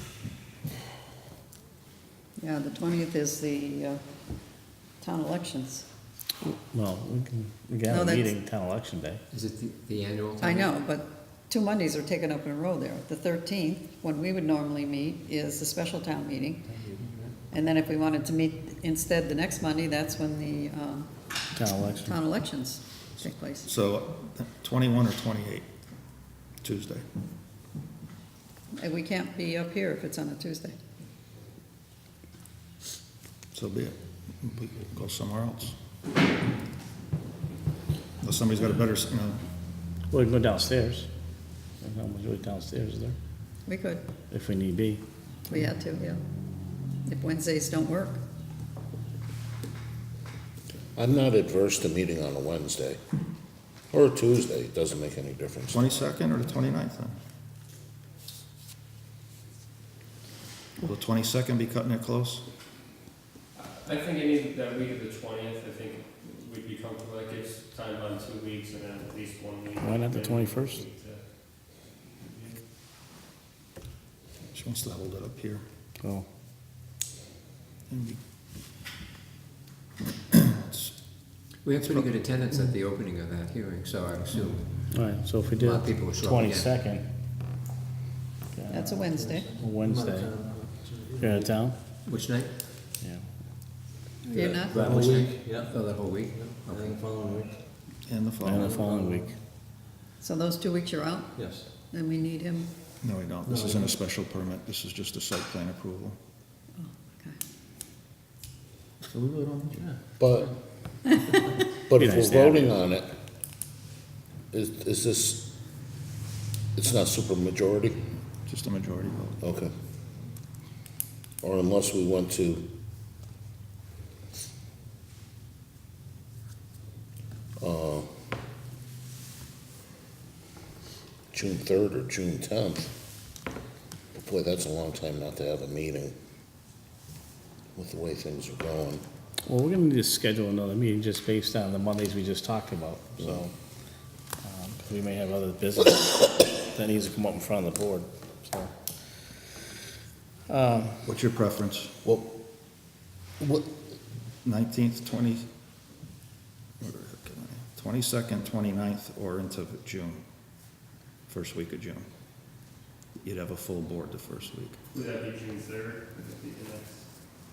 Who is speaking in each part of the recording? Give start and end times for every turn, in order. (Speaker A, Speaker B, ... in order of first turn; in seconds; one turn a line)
Speaker A: 2.4-4.0
Speaker A: 5.0-5.8
Speaker B: 6.4-9.2
Speaker A: 7.9-8.4
Speaker C: 9.3-10.7
Speaker A: 10.4-16.7
Speaker D: 16.7-17.3
Speaker A: 17.5-21.1
Speaker B: 21.5-22.2
Speaker A: 22.0-23.7
Speaker E: 23.1-25.7
Speaker E: 26.6-27.0
Speaker A: 28.8-30.7
Speaker E: 33.5-35.8
Speaker E: 38.2-39.4
Speaker B: 40.1-41.1
Speaker B: 41.8-43.1
Speaker A: 43.6-44.0
Speaker B: 44.3-45.0
Speaker A: 45.5-46.2
Speaker A: 47.0-48.2
Speaker F: 51.0-53.0
Speaker F: 53.9-55.9
Speaker E: 55.7-57.2
Speaker E: 60.8-62.4
Speaker G: 63.5-72.6
Speaker B: 69.8-70.8
Speaker E: 74.5-75.6
Speaker B: 76.0-76.2
Speaker E: 77.9-78.2
Speaker E: 80.3-81.0
Speaker C: 81.6-85.1
Speaker B: 84.9-87.1
Speaker C: 85.6-86.7
Speaker B: 88.5-90.6
Speaker A: 88.7-89.6
Speaker D: 89.2-91.6
Speaker B: 91.2-92.0
Speaker C: 92.0-92.6
Speaker B: 93.0-93.3
Speaker A: 94.2-94.8
Speaker C: 94.3-97.0
Speaker D: 94.8-95.7
Speaker D: 96.7-97.6
Speaker E: 98.0-98.7
Speaker B: 98.4-99.3
Speaker D: 98.6-99.4
Speaker A: 100.2-102.7
Speaker D: 101.3-101.7
Speaker E: 103.0-106.2
Speaker D: 103.5-103.9
Speaker A: 106.8-107.3
Speaker E: 109.1-109.8
Speaker D: 109.7-110.0
Speaker F: 110.2-110.6
Speaker F: 111.9-113.1
Speaker B: 112.0-112.7
Speaker F: 114.5-115.4
Speaker F: 116.8-118.0
Speaker E: 118.5-119.4
Speaker F: 119.4-119.7
Speaker F: 121.4-122.7
Speaker F: 127.6-128.1
Speaker F: 131.3-132.9
Speaker F: 134.1-136.1
Speaker F: 137.8-139.0
Speaker B: 139.4-143.5
Speaker B: 144.4-149.5
Speaker B: 150.5-151.0
Speaker E: 151.0-152.0
Speaker F: 152.0-152.3
Speaker F: 153.4-153.7
Speaker E: 154.4-155.4
Speaker E: 156.8-160.2
Speaker E: 161.3-162.1
Speaker E: 163.2-164.8
Speaker G: 164.9-167.1